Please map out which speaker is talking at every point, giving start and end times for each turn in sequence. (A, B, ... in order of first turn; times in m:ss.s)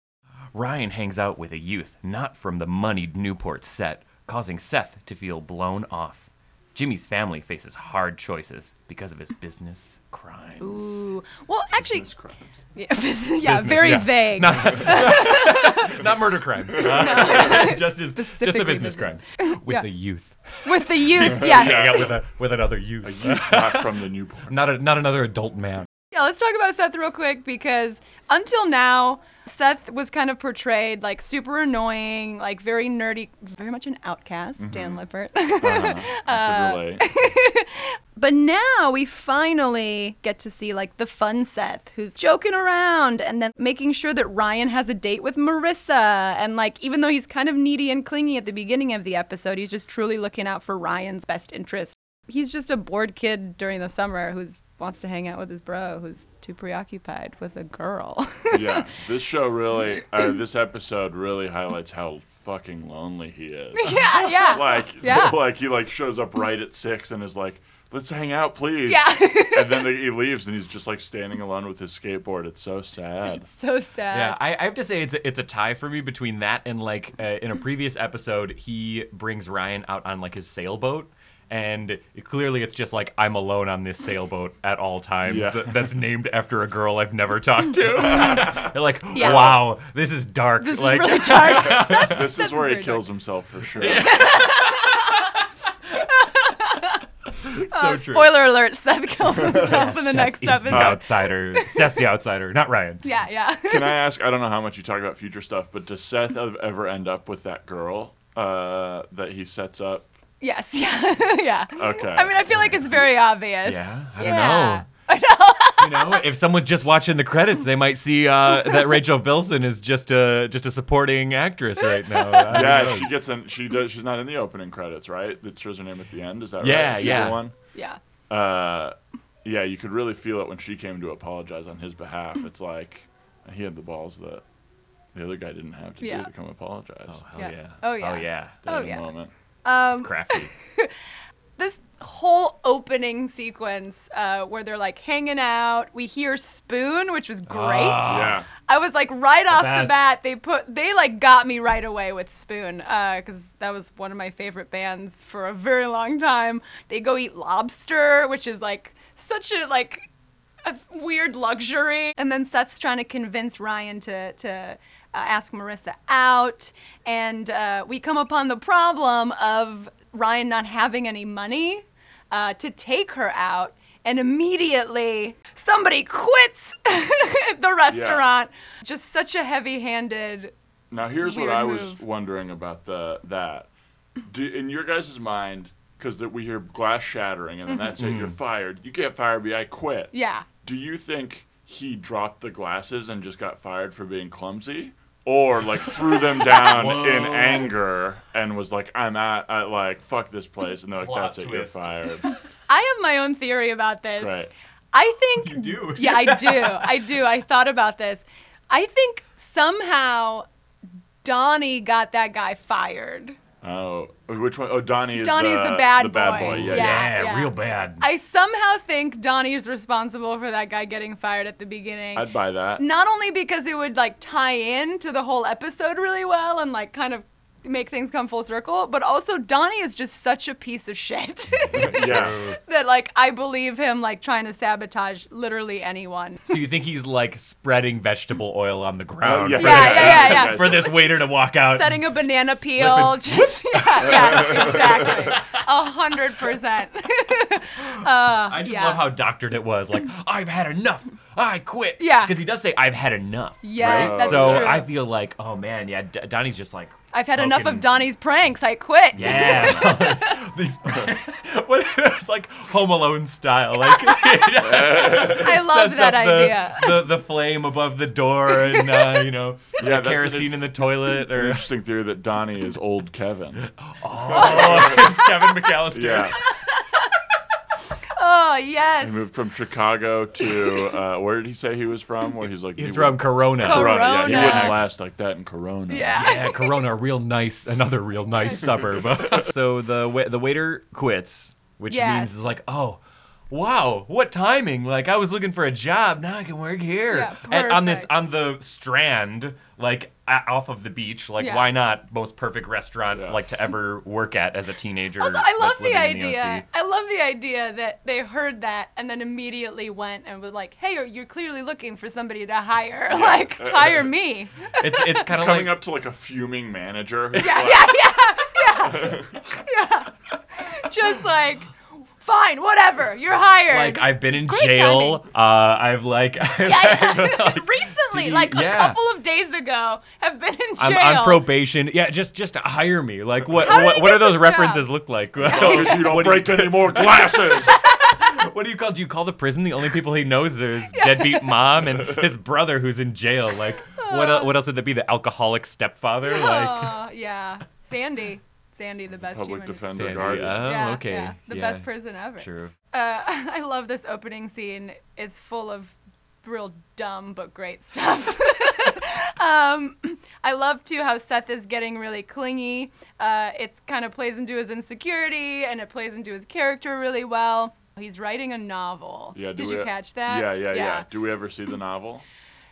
0:00.5-0:11.0 A
0:10.6-0:12.1 B
0:11.8-0:12.6 C
0:12.7-0:16.0 B
0:13.4-0:25.9 A
0:16.7-0:19.8 B
0:16.8-0:17.6 C
0:20.6-0:22.1 B
0:21.2-0:22.2 C
0:23.0-0:24.5 C
0:26.1-0:58.9 B
0:34.6-0:35.0 C
0:35.6-0:37.1 C
0:58.5-1:13.5 C
1:03.8-1:05.4 B
1:08.9-1:09.9 B
1:13.5-1:14.4 B
1:14.1-1:32.2 A
1:25.2-1:25.9 C
1:28.0-1:29.6 C
1:28.2-1:28.4 B
1:29.1-1:29.6 B
1:30.6-1:33.0 B
1:31.6-1:34.2 C
1:33.8-1:35.3 A
1:33.8-1:35.3 B
1:36.0-1:37.0 B
1:37.4-1:38.3 A
1:37.6-1:42.0 B
1:39.4-1:43.1 A
1:40.7-1:41.0 C
1:43.0-1:44.0 B
1:43.7-1:50.1 C
1:50.4-1:56.2 B
1:51.7-1:52.5 C
1:52.5-1:53.0 A
1:53.6-1:54.8 A
1:55.8-2:03.1 A
1:58.5-1:59.0 B
2:02.0-2:02.9 B
2:02.5-2:07.5 C
2:06.6-2:07.4 A
2:07.0-2:08.0 B
2:08.3-2:14.4 C
2:15.1-2:17.2 C
2:16.0-2:16.3 B
2:17.1-2:18.6 A
2:17.4-2:19.1 B
2:18.6-2:19.3 C
2:19.6-2:20.9 B
2:19.9-2:20.5 A
2:21.6-2:40.0 B
2:27.5-2:28.4 A
2:28.0-2:28.5 C
2:29.5-2:30.0 A
2:40.6-3:00.5 B
2:57.9-2:58.2 C
3:00.9-3:03.7 C
3:01.2-3:02.0 B
3:04.2-3:10.1 C
3:07.7-3:07.9 B
3:08.0-3:08.4 A
3:10.1-3:10.5 B
3:10.6-3:22.3 C
3:16.4-3:17.7 A
3:21.0-3:21.9 A
3:22.7-3:30.4 B
3:24.2-3:24.5 C
3:25.4-3:26.9 A
3:31.2-3:33.4 B
3:33.6-3:37.1 C
3:35.1-3:56.5 B
3:36.4-3:38.0 A
3:42.1-3:42.8 C
3:51.6-3:52.6 A
3:51.7-3:52.4 C
3:56.5-4:02.0 A
3:59.2-4:01.0 C
3:59.5-4:00.8 B
4:01.5-4:09.1 B
4:02.8-4:05.6 A
4:04.0-4:05.3 C
4:07.8-4:17.9 A
4:12.0-4:12.4 B
4:13.6-4:14.9 B
4:13.8-4:14.8 C
4:17.1-4:20.4 B
4:19.1-4:20.0 C
4:19.1-4:31.7 A
4:23.8-4:27.1 B
4:24.6-4:25.5 C
4:29.8-4:30.7 C
4:31.3-4:33.6 C
4:33.6-4:36.4 A
4:34.3-4:35.0 C
4:34.3-4:35.5 B
4:35.9-4:36.4 C
4:36.4-4:37.2 B
4:38.1-4:39.2 B
4:39.0-4:46.3 C
4:42.8-4:44.8 A
4:43.6-4:44.8 B
4:45.9-4:46.7 B
4:46.1-5:06.6 A
4:48.3-4:48.8 B
4:49.2-4:49.4 C
4:51.9-4:52.3 B
4:57.1-4:58.1 B
5:01.4-5:01.7 B
5:03.1-5:03.4 C
5:05.2-5:15.3 B
5:13.1-5:14.1 C
5:14.8-5:15.7 A
5:15.3-5:18.0 C
5:17.4-5:25.2 B
5:18.7-5:19.4 C
5:23.7-5:29.0 A
5:26.6-5:31.4 B
5:30.8-5:47.0 A
5:33.6-5:34.8 B
5:35.4-5:37.8 C
5:35.6-5:36.0 B
5:37.8-5:38.4 B
5:41.0-5:41.6 B
5:44.0-5:44.5 B
5:46.2-6:11.0 B
5:49.2-5:50.7 C
5:49.9-5:51.9 A
5:52.4-5:52.7 A
6:09.3-6:12.2 C